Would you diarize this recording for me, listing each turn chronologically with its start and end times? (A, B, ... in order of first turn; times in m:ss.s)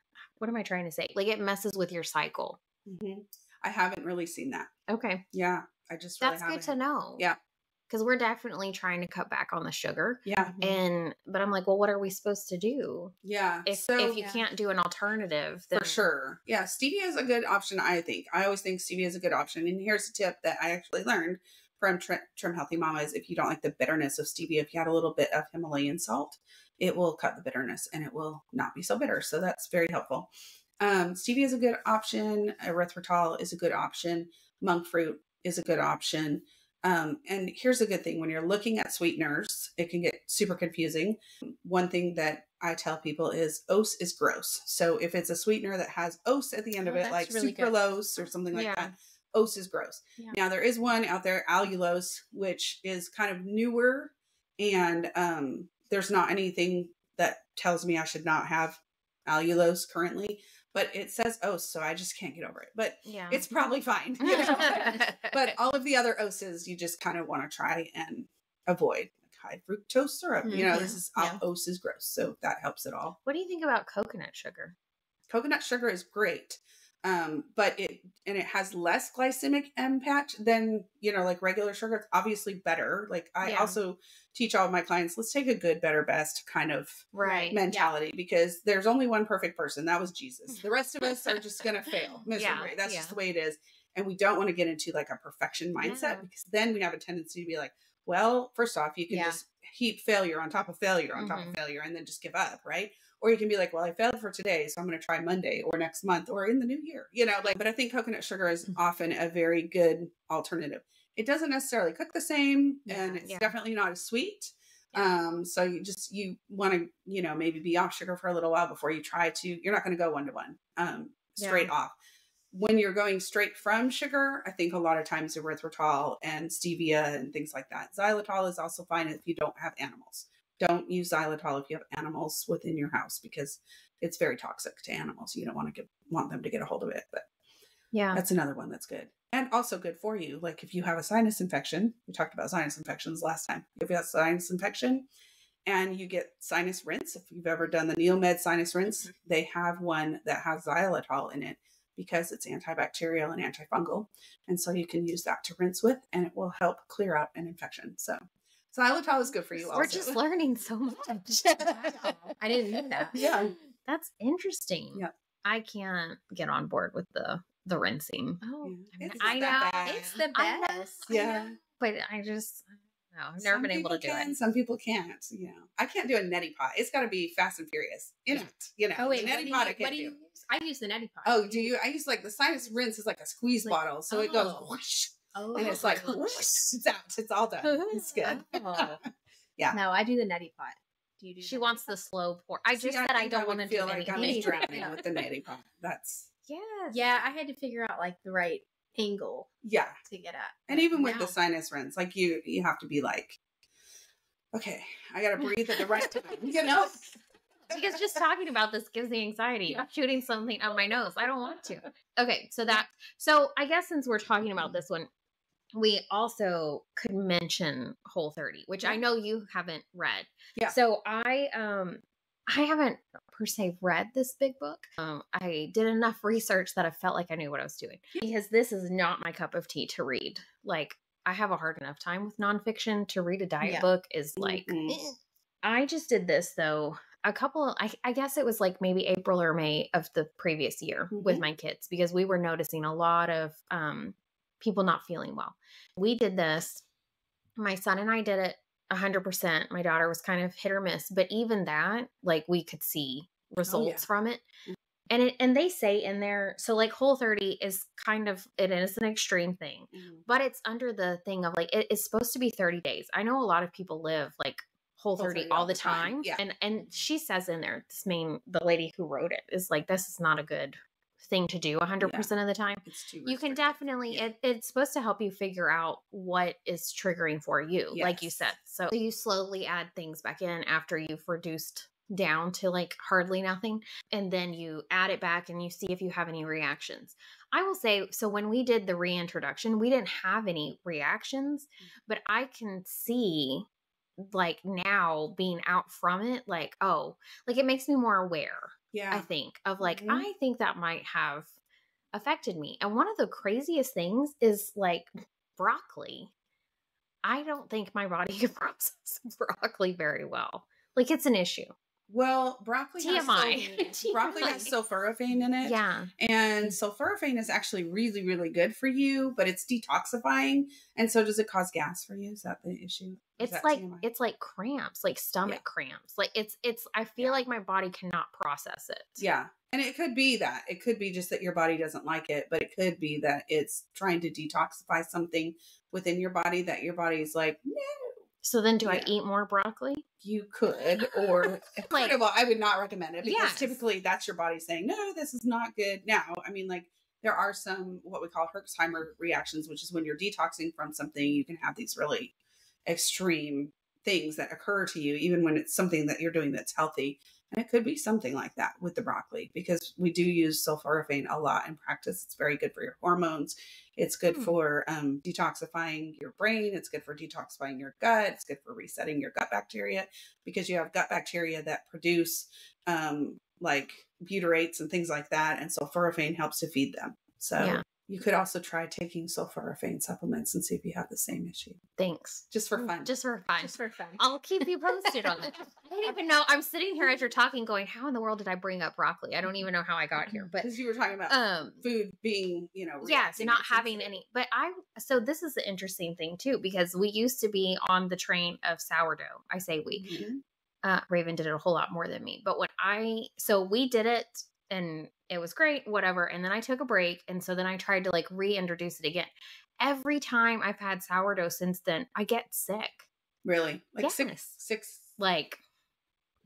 0:00.4-0:02.6 A
0:02.9-0:04.7 B
0:04.9-0:05.2 A
0:05.3-0:07.4 B
0:06.2-0:07.3 A
0:07.9-0:13.2 A
0:10.3-0:10.8 B
0:13.2-0:14.2 B
0:13.7-0:16.0 A
0:14.2-0:14.4 C
0:15.7-0:30.3 B
0:30.8-1:13.2 B
0:46.8-0:47.8 C
0:48.5-0:48.9 A
1:03.1-1:03.5 A
1:04.2-1:05.4 A
1:10.4-1:11.4 C
1:10.7-1:11.4 A
1:13.2-1:14.8 A
1:15.3-2:02.0 B
1:23.4-1:23.8 A
1:27.1-1:27.6 A
1:27.2-1:27.9 C
1:32.3-1:33.2 A
1:35.8-1:36.2 A
1:39.1-1:39.4 C
1:41.2-1:41.6 A
1:52.9-1:53.5 A
2:01.4-2:01.7 A
2:02.5-2:17.3 B
2:17.9-2:18.2 A
2:18.1-2:25.1 B
2:25.7-2:38.2 B
2:38.7-2:40.2 B
2:39.7-2:42.2 A
2:42.0-2:43.2 C
2:43.1-2:43.5 B
2:43.8-2:54.3 A
2:48.4-2:48.7 C
2:48.6-2:50.2 B
2:49.2-2:51.3 C
2:51.1-2:51.6 B
2:53.4-3:00.2 B
2:59.0-3:01.7 C
3:01.2-3:09.0 B
3:03.7-3:04.7 C
3:05.4-3:06.2 C
3:05.6-3:06.2 A
3:07.6-3:08.9 A
3:08.3-3:09.0 C
3:09.7-3:11.9 C
3:11.4-3:14.9 A
3:12.7-3:16.3 B
3:14.2-3:15.0 C
3:16.5-3:17.2 A
3:16.9-3:19.5 C
3:19.6-3:20.0 B
3:20.0-3:21.4 C
3:20.7-3:23.4 B
3:24.5-3:27.1 B
3:27.7-3:35.1 A
3:34.6-3:34.8 B
3:35.7-4:06.8 A
3:53.6-3:53.9 C
3:54.4-3:55.0 B
4:01.1-4:01.4 B
4:07.6-4:14.4 A
4:13.6-4:14.1 B
4:15.1-4:53.7 A
4:19.9-4:20.2 B
4:25.2-4:26.4 B
4:32.0-4:32.3 B
4:32.8-4:34.3 B
4:37.9-4:38.4 B
4:54.2-5:01.5 A
4:58.9-4:59.3 B
4:59.8-5:00.3 B
5:02.1-5:06.3 A
5:07.2-5:11.8 A
5:12.1-5:24.0 B
5:13.0-5:14.7 A
5:13.1-5:14.7 C
5:15.6-5:16.1 A
5:23.4-5:29.2 A
5:27.2-5:27.4 B
5:29.2-5:38.2 B
5:38.4-5:40.0 A
5:38.8-5:39.1 B
5:40.2-6:21.8 B
5:41.8-5:42.2 A
5:43.2-5:43.8 A
6:04.3-6:04.5 A
6:17.6-6:17.8 A
6:22.0-6:30.7 A
6:22.5-6:23.1 B
6:23.6-6:25.2 C
6:30.6-6:34.2 B
6:31.3-6:31.8 A
6:33.0-6:40.1 A
6:39.9-6:40.4 B
6:40.8-6:53.1 A
6:53.4-6:55.0 B
6:54.0-6:54.6 A
6:55.2-6:55.6 A